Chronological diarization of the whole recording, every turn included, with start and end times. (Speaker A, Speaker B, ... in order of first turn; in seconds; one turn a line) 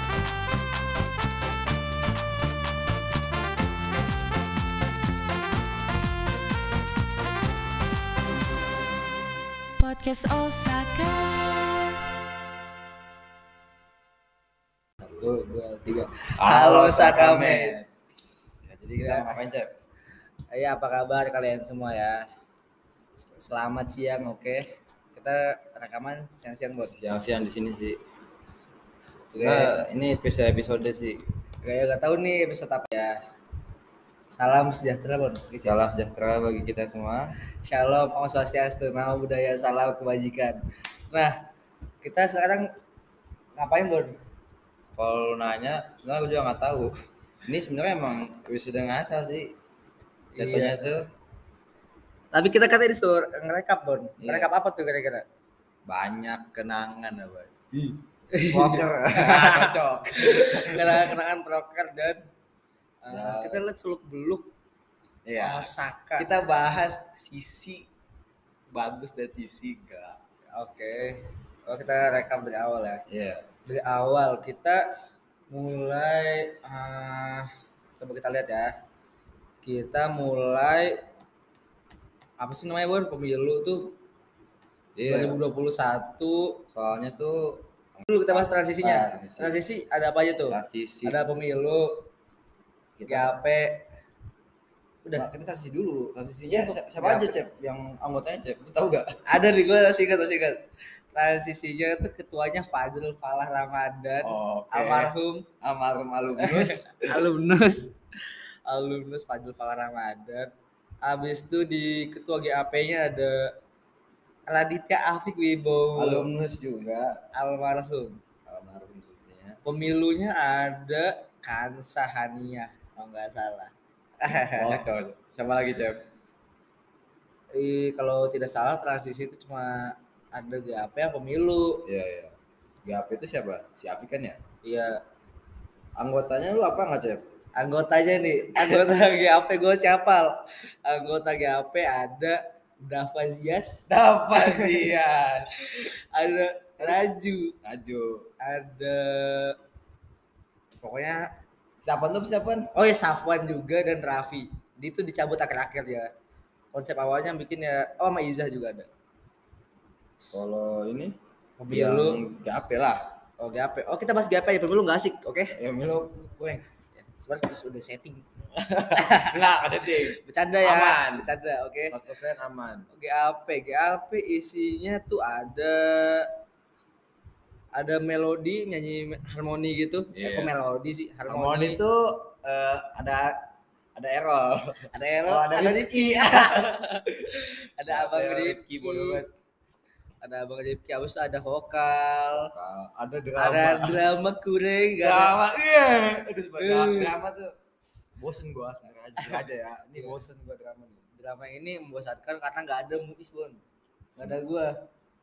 Speaker A: 9.8-12.0
Speaker B: 15.0-17.8
Speaker C: 16.4-17.9
Speaker C: 18.6-19.7
Speaker B: 19.0-19.4
Speaker B: 20.5-22.3
Speaker B: 23.2-26.9
Speaker C: 26.9-28.0
Speaker B: 29.3-29.8
Speaker C: 29.4-31.2
Speaker B: 31.6-33.2
Speaker B: 34.3-35.8
Speaker C: 35.6-37.3
Speaker B: 37.6-40.6
Speaker B: 41.1-41.4
Speaker B: 42.0-42.7
Speaker B: 43.6-44.2
Speaker C: 45.0-49.5
Speaker B: 50.3-50.8
Speaker C: 50.4-51.0
Speaker B: 52.3-55.2
Speaker C: 54.2-54.5
Speaker C: 55.9-61.1
Speaker B: 58.3-62.2
Speaker B: 63.0-64.5
Speaker C: 63.1-63.6
Speaker C: 65.2-67.9
Speaker B: 65.4-66.3
Speaker C: 68.7-70.2
Speaker B: 70.5-73.0
Speaker C: 73.1-73.5
Speaker B: 73.7-74.8
Speaker B: 75.5-78.7
Speaker B: 79.6-81.0
Speaker B: 82.4-84.0
Speaker C: 85.0-85.4
Speaker B: 85.1-86.6
Speaker C: 86.7-89.6
Speaker B: 88.1-92.0
Speaker C: 90.5-91.2
Speaker C: 93.0-93.4
Speaker B: 93.1-93.8
Speaker C: 95.1-99.1
Speaker B: 96.5-97.4
Speaker B: 99.3-100.6
Speaker B: 101.1-105.4
Speaker C: 104.2-107.1
Speaker B: 106.4-107.9
Speaker B: 108.7-110.5
Speaker B: 111.0-113.5
Speaker B: 114.5-116.3
Speaker C: 116.0-117.2
Speaker B: 117.3-118.2
Speaker C: 118.5-119.6
Speaker B: 119.6-124.8
Speaker C: 124.3-126.0
Speaker B: 127.5-131.8
Speaker C: 131.8-132.3
Speaker C: 132.8-134.4
Speaker B: 134.6-135.0
Speaker C: 136.0-137.2
Speaker B: 137.6-144.8
Speaker C: 143.9-145.9
Speaker B: 145.7-147.5
Speaker C: 147.6-148.3
Speaker B: 148.4-149.6
Speaker B: 150.8-151.2
Speaker C: 151.8-152.7
Speaker B: 152.7-156.1
Speaker B: 156.7-158.9
Speaker C: 160.3-161.2
Speaker B: 161.6-162.2
Speaker C: 161.7-163.0
Speaker B: 163.4-165.6
Speaker C: 165.5-166.6
Speaker B: 166.9-168.2
Speaker C: 168.6-171.3
Speaker B: 168.9-169.3
Speaker B: 170.2-172.0
Speaker C: 171.9-172.8
Speaker B: 172.9-176.3
Speaker B: 177.7-181.8
Speaker C: 180.1-180.5
Speaker C: 181.3-189.3
Speaker B: 184.9-189.2
Speaker B: 190.2-192.5
Speaker C: 192.3-194.0
Speaker B: 193.4-195.3
Speaker C: 195.0-197.5
Speaker B: 196.6-197.1
Speaker C: 198.2-201.0
Speaker B: 201.2-203.6
Speaker B: 204.2-204.7